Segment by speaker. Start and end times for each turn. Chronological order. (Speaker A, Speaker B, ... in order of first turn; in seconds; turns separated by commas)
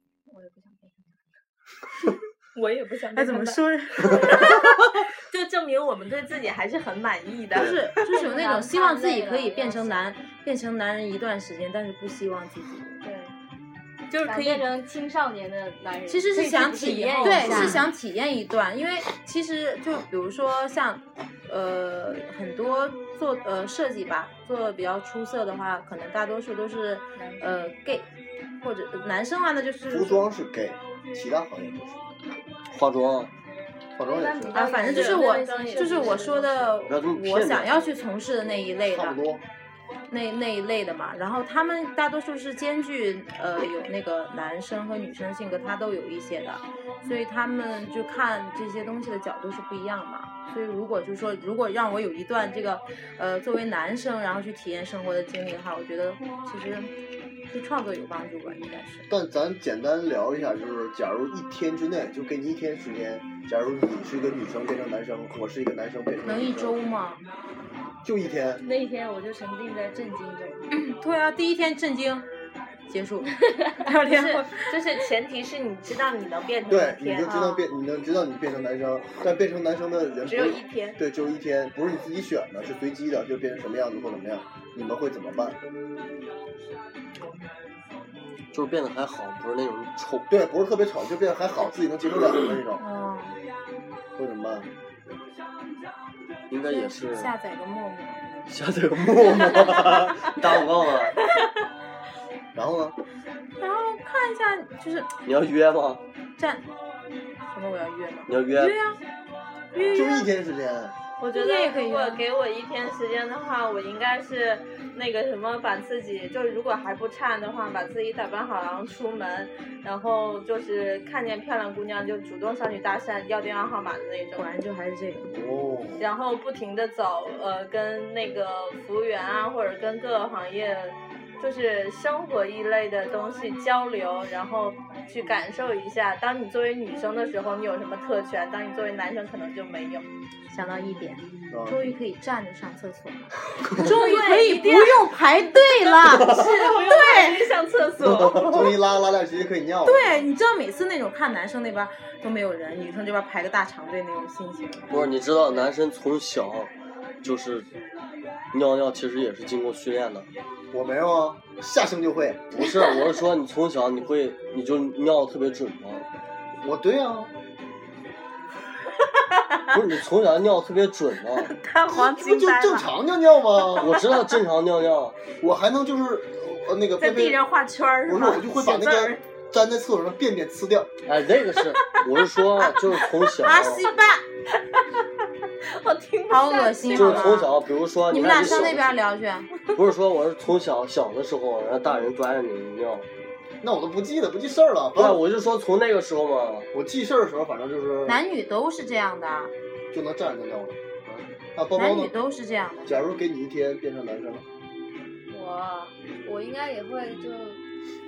Speaker A: 0.3-1.2, Speaker B: 2.5-7.9, Speaker C: 3.1-4.8, Speaker C: 7.5-13.0, Speaker A: 8.0-10.1, Speaker A: 13.0-13.3, Speaker B: 14.1-14.7, Speaker A: 14.2-17.9, Speaker C: 16.1-28.1, Speaker B: 16.9-17.9, Speaker A: 27.2-27.6, Speaker C: 28.6-30.3, Speaker D: 29.9-32.0, Speaker E: 32.7-33.3, Speaker D: 34.0-34.6, Speaker A: 34.0-36.8, Speaker C: 34.5-39.2, Speaker B: 34.7-36.5, Speaker E: 36.9-37.8, Speaker D: 38.9-39.4, Speaker C: 40.1-56.9, Speaker C: 57.5-59.1, Speaker D: 59.1-66.8, Speaker C: 66.2-67.2, Speaker D: 68.0-68.6, Speaker A: 68.6-70.7, Speaker C: 70.7-72.3, Speaker C: 72.9-74.7, Speaker A: 73.5-73.7, Speaker B: 74.0-77.3, Speaker D: 76.7-85.6, Speaker C: 77.3-77.7, Speaker B: 80.3-81.0, Speaker E: 88.5-90.3, Speaker D: 90.3-92.8, Speaker C: 92.8-93.4, Speaker D: 94.2-94.7, Speaker E: 96.5-97.3, Speaker C: 96.7-98.5, Speaker E: 98.5-101.2, Speaker D: 102.5-103.0, Speaker C: 103.6-105.1, Speaker E: 105.3-106.0, Speaker C: 106.4-106.6, Speaker C: 107.5-109.0, Speaker E: 108.3-108.8, Speaker C: 109.7-110.2, Speaker B: 109.8-110.2, Speaker D: 109.9-111.0, Speaker B: 111.2-124.5, Speaker C: 111.3-112.2, Speaker C: 124.4-125.3, Speaker D: 125.3-126.0, Speaker B: 126.0-140.1, Speaker C: 140.5-147.5, Speaker D: 141.5-141.8, Speaker B: 143.8-145.1, Speaker B: 146.0-148.6, Speaker E: 146.1-146.6, Speaker E: 148.1-148.7, Speaker D: 148.4-150.3, Speaker C: 149.8-155.0, Speaker E: 154.9-156.7, Speaker E: 157.2-157.7, Speaker E: 158.5-160.3, Speaker D: 160.7-162.7, Speaker E: 162.5-166.1, Speaker D: 166.6-167.3, Speaker B: 169.1-169.7, Speaker E: 169.7-171.5, Speaker B: 171.4-172.9, Speaker D: 171.9-174.0, Speaker E: 173.8-175.2, Speaker B: 173.8-174.2, Speaker D: 175.4-177.4, Speaker B: 177.0-179.2, Speaker D: 178.1-180.9, Speaker E: 181.1-183.9, Speaker B: 181.6-182.0, Speaker C: 183.4-184.2, Speaker B: 184.7-185.0, Speaker B: 185.6-187.4, Speaker C: 186.3-187.5, Speaker E: 186.9-189.0, Speaker C: 188.1-189.5, Speaker E: 189.7-193.1, Speaker D: 193.6-195.2, Speaker E: 195.0-196.7, Speaker D: 196.7-198.2, Speaker C: 198.1-199.5, Speaker D: 199.9-200.8, Speaker D: 201.6-202.1, Speaker C: 201.8-203.0, Speaker D: 202.9-204.5, Speaker A: 205.3-207.6